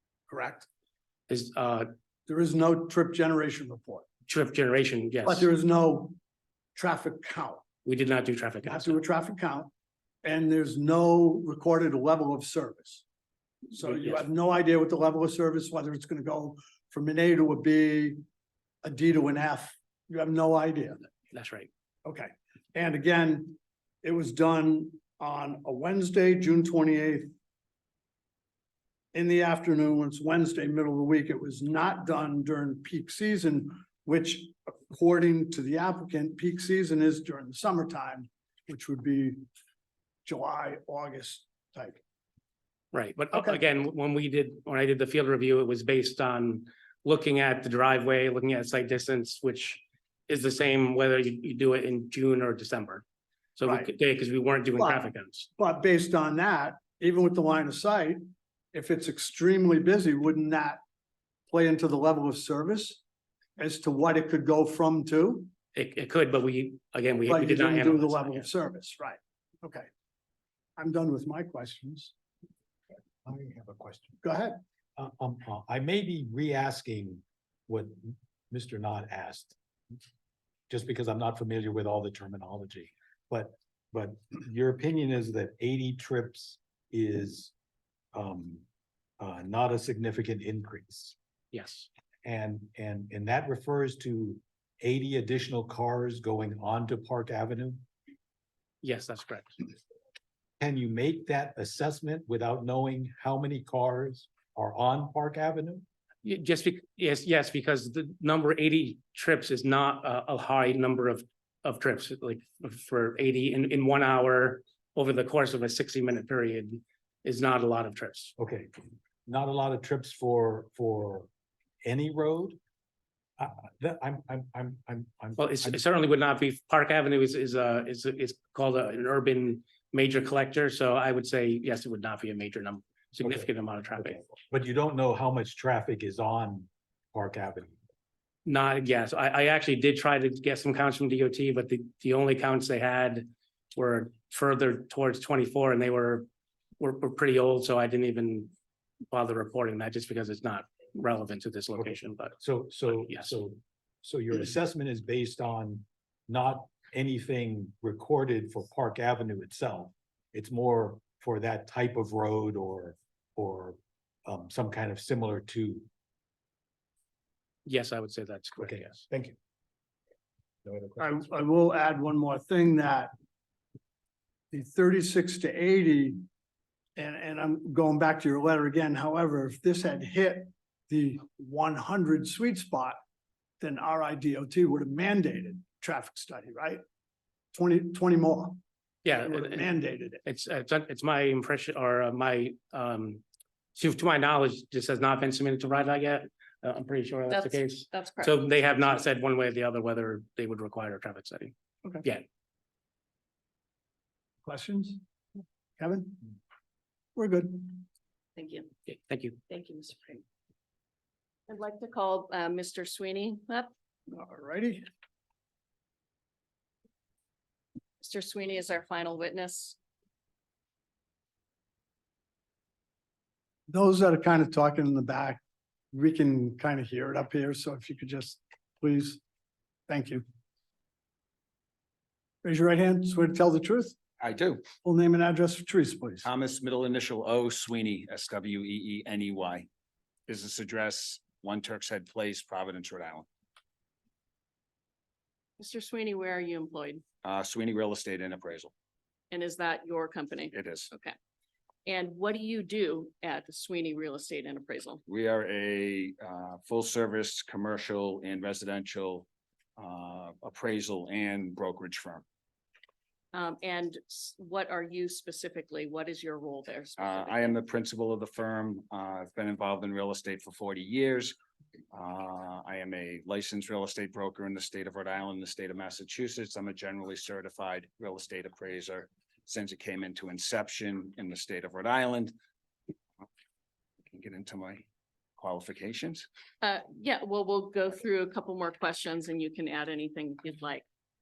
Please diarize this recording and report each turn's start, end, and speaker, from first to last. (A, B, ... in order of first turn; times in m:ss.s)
0:00.3-0:00.7 A
0:01.3-0:01.9 B
0:02.3-0:04.1 A
0:04.3-0:05.5 B
0:05.2-0:06.2 A
0:06.8-0:07.6 A
0:07.8-0:09.0 B
0:08.6-0:09.7 A
0:10.2-0:13.0 A
0:13.7-0:18.2 A
0:13.8-0:14.2 B
0:18.8-0:21.0 A
0:21.3-0:21.7 B
0:22.0-0:27.3 A
0:29.1-0:39.4 A
0:40.2-0:42.0 A
0:42.9-0:53.0 B
0:43.3-0:43.6 A
0:53.6-0:55.5 B
0:54.8-0:58.2 A
0:58.7-1:00.8 A
1:01.5-1:03.0 A
1:03.6-1:05.5 A
1:05.7-1:08.5 B
1:07.3-1:09.9 A
1:10.8-1:12.1 A
1:13.2-1:14.2 C
1:14.2-1:14.6 A
1:15.0-1:19.6 C
1:20.7-1:27.5 C
1:28.1-1:28.6 C
1:29.2-1:31.2 C
1:31.5-1:31.9 B
1:32.2-1:37.8 C
1:38.8-1:39.7 B
1:40.6-1:45.8 C
1:46.2-1:58.3 B
1:58.4-2:01.3 C
2:01.8-2:02.6 C
2:03.4-2:05.8 C
2:05.4-2:14.2 B
2:13.2-2:17.8 C
2:18.4-2:26.2 B
2:26.8-2:28.5 B
2:29.1-2:32.4 B
2:31.8-2:45.9 C
2:33.0-2:33.3 B
2:47.6-2:49.0 B
2:48.6-2:49.3 C
2:50.6-2:51.2 C
2:51.0-2:53.1 A
2:54.5-2:56.2 A
2:57.0-3:03.0 A
3:03.6-3:06.8 A
3:07.5-3:08.6 A
3:09.0-3:09.7 B
3:09.1-3:10.2 A
3:10.2-3:13.2 B
3:13.8-3:22.2 B
3:17.3-3:18.4 D
3:24.4-3:25.0 A
3:25.8-3:26.2 A
3:27.2-3:27.8 A
3:28.4-3:28.7 D
3:28.9-3:29.4 B
3:29.5-3:30.2 D
3:31.5-3:33.7 D
3:34.1-3:34.8 A
3:38.0-3:39.8 D
3:43.7-3:45.4 A
3:45.9-3:49.2 A
3:49.9-3:50.2 A
3:52.4-3:54.0 A
3:54.2-3:54.7 E
3:54.8-3:56.3 A
3:56.2-3:59.7 E
4:00.3-4:03.3 E
4:05.6-4:07.0 D
4:07.2-4:08.7 E
4:09.3-4:11.1 D
4:10.5-4:10.9 E
4:11.9-4:15.0 D
4:15.1-4:22.2 E
4:23.3-4:27.6 D
4:27.0-4:31.3 E
4:31.9-4:42.3 E
4:44.1-4:44.9 E
4:45.4-4:46.2 E
4:46.6-4:50.8 D